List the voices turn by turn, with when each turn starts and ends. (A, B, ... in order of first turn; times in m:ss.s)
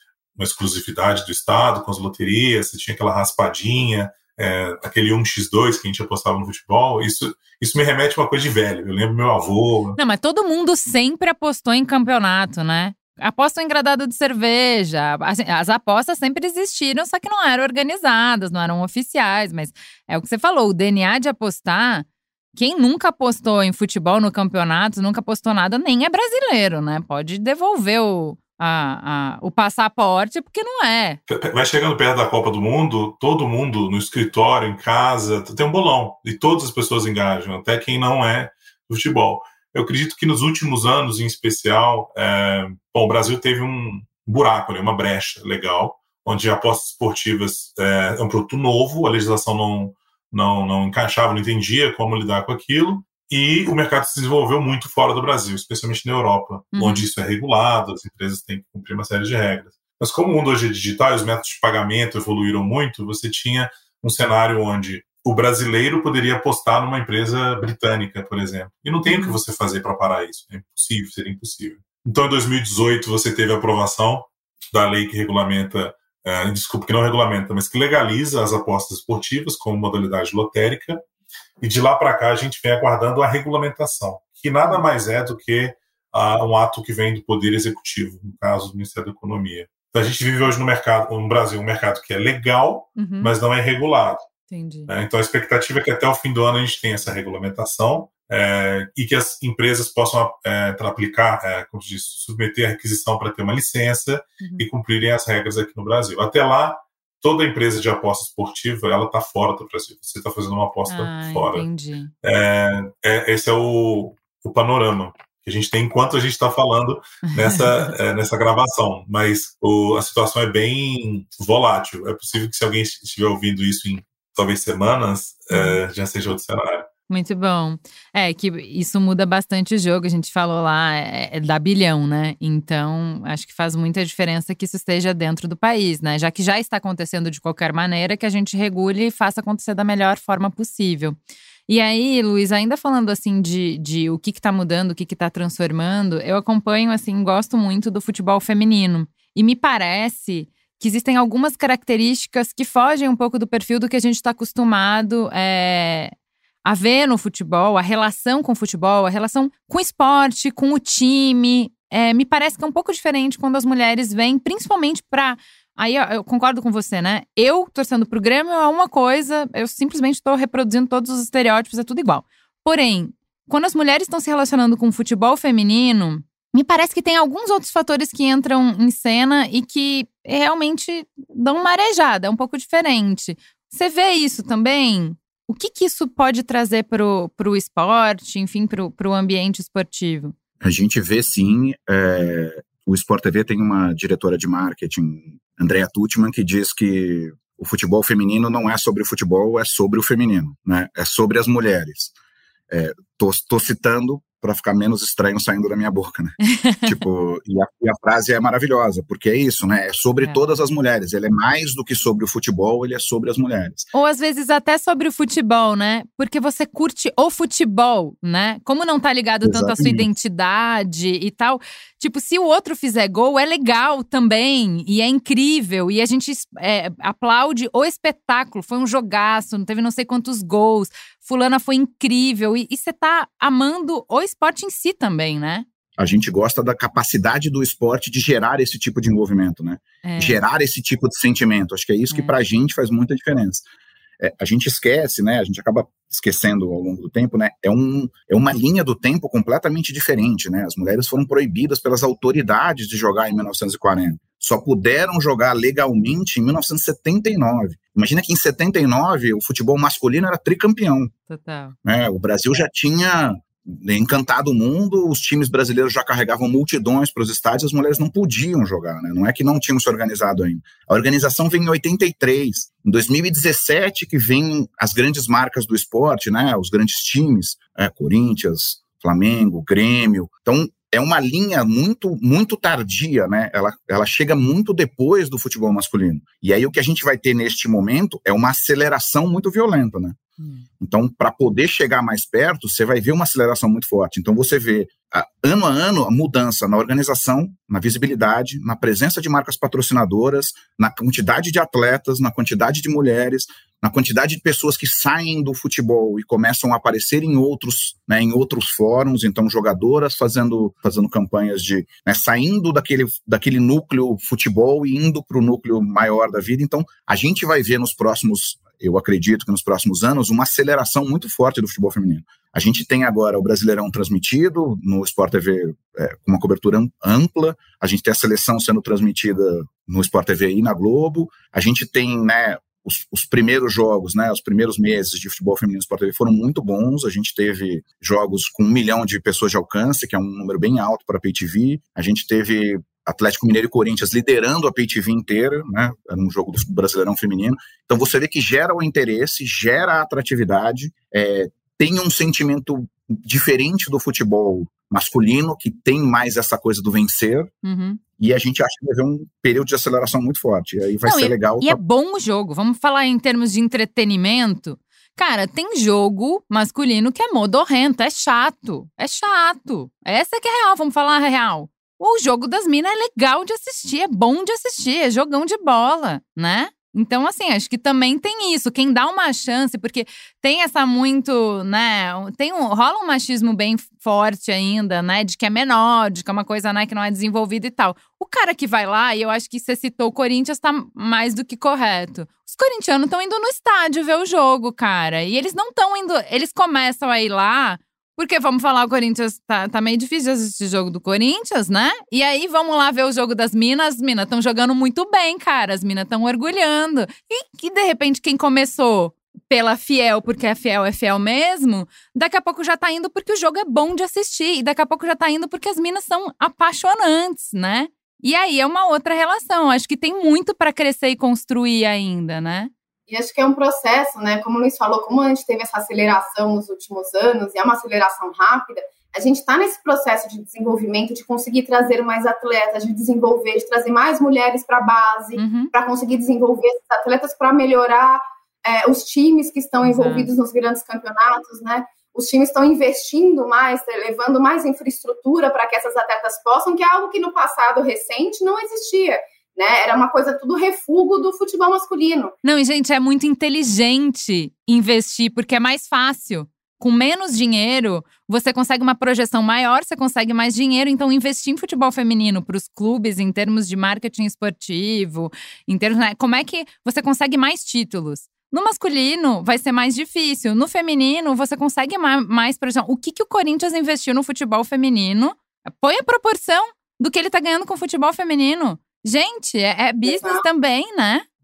0:00.4-0:10.0 A
0:10.0-0:31.2 B
0:31.3-1:21.0 A
0:56.7-0:57.0 B
1:09.0-1:09.4 B
1:21.6-1:34.2 A
1:33.0-1:33.3 B
1:34.5-1:34.9 B
1:34.9-1:51.6 A
1:44.4-1:44.7 B
1:50.9-1:52.1 B
1:52.2-2:06.9 A
1:57.2-1:57.9 B
2:05.5-2:05.8 B
2:07.1-2:21.2 B
2:21.7-2:36.1 B
2:36.6-3:10.3 B
3:10.6-3:22.1 C
3:22.7-3:26.3 C
3:26.4-3:27.0 B
3:26.8-3:33.9 C
3:33.9-3:55.6 B
3:39.4-3:40.1 C
3:56.0-4:03.6 C
4:00.0-4:00.4 B
4:04.2-4:21.1 C
4:21.3-4:21.7 B
4:21.8-4:50.2 C
4:50.4-4:50.6 B
4:50.8-5:57.5 C
5:57.6-5:58.0 B
5:58.2-6:01.8 C
6:01.0-7:02.7 B
7:03.1-7:32.3 D
7:15.4-7:15.7 B
7:19.8-7:20.3 B
7:32.4-8:01.2 B
8:00.0-8:00.4 D